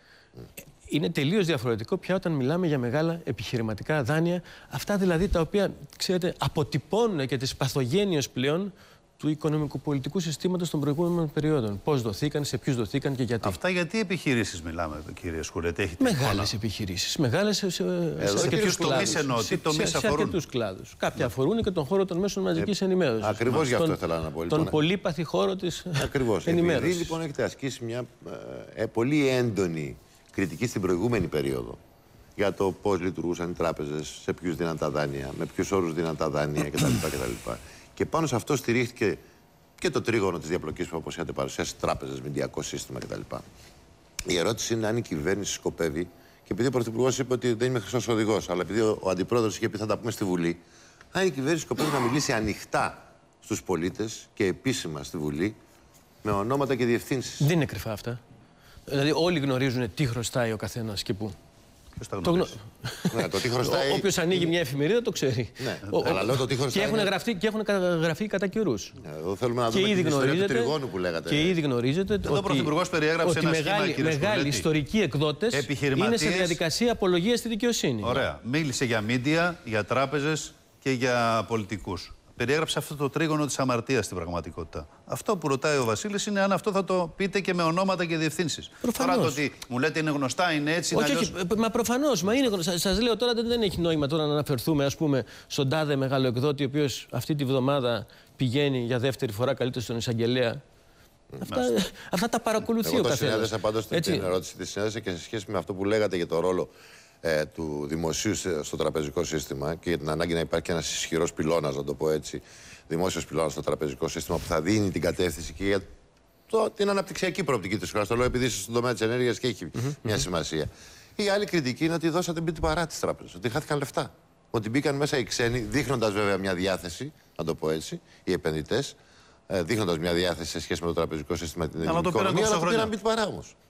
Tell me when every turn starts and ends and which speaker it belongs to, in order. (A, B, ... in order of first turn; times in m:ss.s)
0:00.9-0:13.6 A
0:13.4-0:16.5 B
0:16.0-0:27.2 A
0:18.2-0:19.2 C
0:18.4-0:20.4 B
0:22.6-0:24.8 C
0:26.0-0:31.8 C
0:32.4-0:39.2 C
0:39.8-0:43.4 C
0:44.3-0:50.6 C
0:51.1-0:55.6 C
0:56.2-0:57.4 C
0:57.4-0:58.2 A
0:58.9-1:01.3 A
1:02.0-1:02.5 B
1:02.2-1:09.0 A
1:03.1-1:04.5 C
1:05.6-1:07.1 C
1:05.9-1:06.2 B
1:09.0-1:11.6 C
1:09.7-1:18.2 A
1:12.2-1:14.7 B
1:15.5-1:16.6 B
1:18.0-1:31.3 B
1:28.8-1:29.4 A
1:30.9-1:40.6 A
1:41.4-1:44.3 A
1:42.8-1:46.7 C
1:47.2-1:55.9 C
1:56.5-2:09.0 C
1:59.8-2:00.2 A
2:09.5-2:13.5 C
2:11.8-2:12.9 B